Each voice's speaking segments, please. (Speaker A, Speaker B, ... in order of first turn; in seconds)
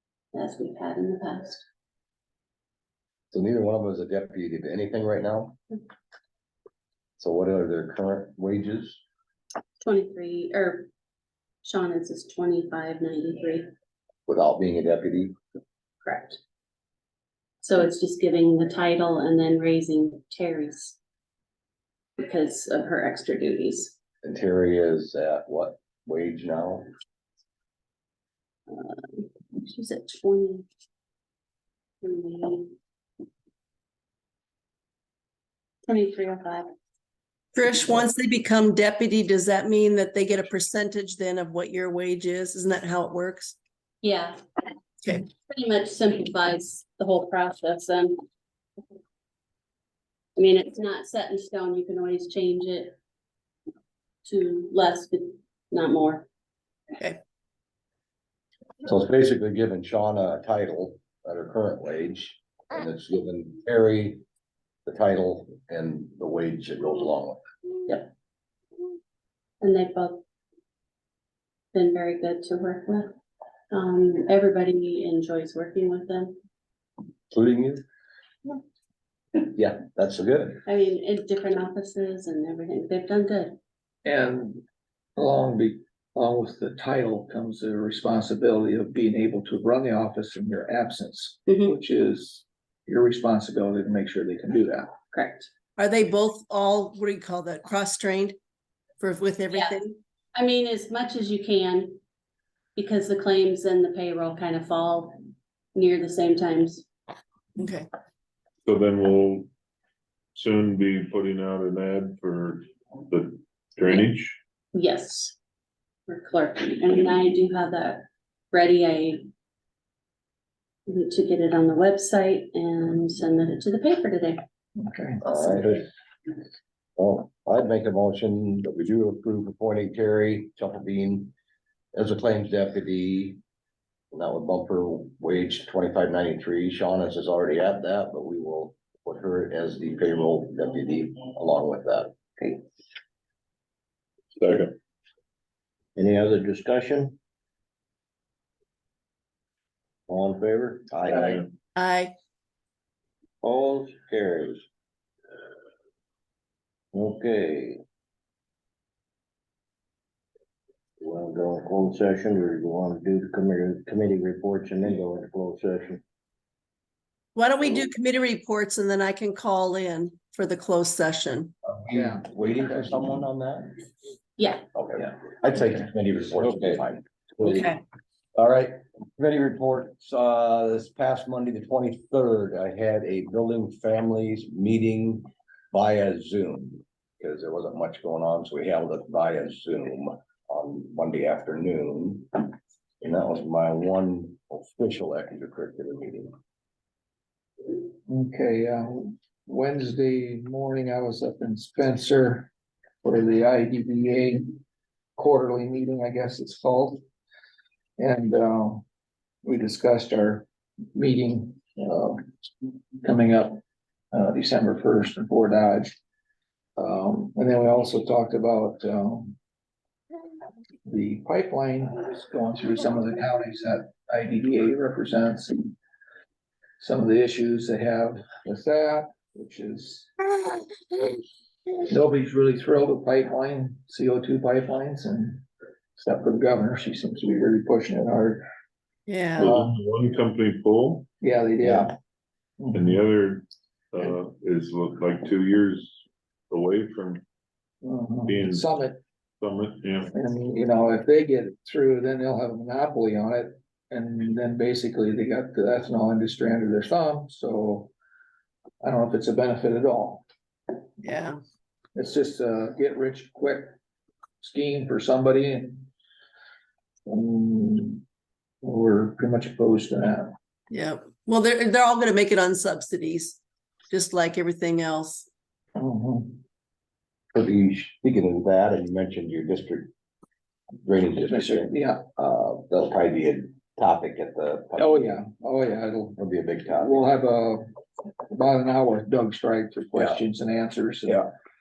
Speaker A: 0.3-1.6, 9.8-10.9, 11.6-13.7, 16.0-16.4, 17.6-21.0, 22.2-23.9, 28.7-30.7, 32.0-32.7, 35.9-36.7, 44.0-44.4, 45.2-48.2, 50.4-53.0, 54.2-56.3, 69.6-70.2, 71.7-73.1, 73.7-76.4, 80.7-83.6, 91.5-91.8, 95.1-95.5, 99.5-102.0, 102.8-105.2, 105.7-106.9, 114.7-115.4, 116.1-119.3, 120.9-124.4, 174.4-174.6
Speaker B: 3.3-5.6, 7.2-9.0, 14.3-15.4, 24.2-26.9, 58.8-64.2, 64.9-67.4, 77.3-77.8, 79.4-80.6, 125.2-125.8, 127.0-131.3, 131.9-133.4, 134.1-142.1, 171.7-173.9, 174.7-177.8, 178.3-192.5, 193.0-196.3, 241.6-241.9, 277.3-279.9, 280.8-285.1, 286.2-287.1
Speaker C: 37.5-43.6, 95.8-98.4, 99.0-100.0, 107.6-107.9, 151.8-152.1, 167.3-171.5, 177.5-177.8, 239.1-239.6, 261.0-261.4, 270.7-275.3
Speaker D: 84.0-84.6, 85.2-94.9, 124.8-125.2, 171.9-172.3, 198.1-202.5, 203.0-204.6, 205.2-207.0, 208.0-208.8, 209.4-213.6, 214.1-216.0, 216.8-219.4, 220.8-225.7, 226.8-230.1, 231.8-235.4, 236.0-238.5, 239.4-239.7, 241.2-241.9, 242.6-243.0, 247.8-249.0, 250.1-257.9, 258.8-260.2, 261.9-263.8, 264.4-265.9, 267.1-268.0, 268.6-270.3, 275.8-276.4, 281.3-282.1, 284.8-286.2, 286.8-287.6, 288.3-291.3
Speaker E: 108.6-109.5, 110.3-114.4, 144.4-144.8, 239.4-241.1, 242.7-247.2, 248.3-248.7, 249.4-250.1
Speaker F: 146.0-147.2, 150.1-151.5, 153.4-154.6, 156.9-157.8, 161.0-166.0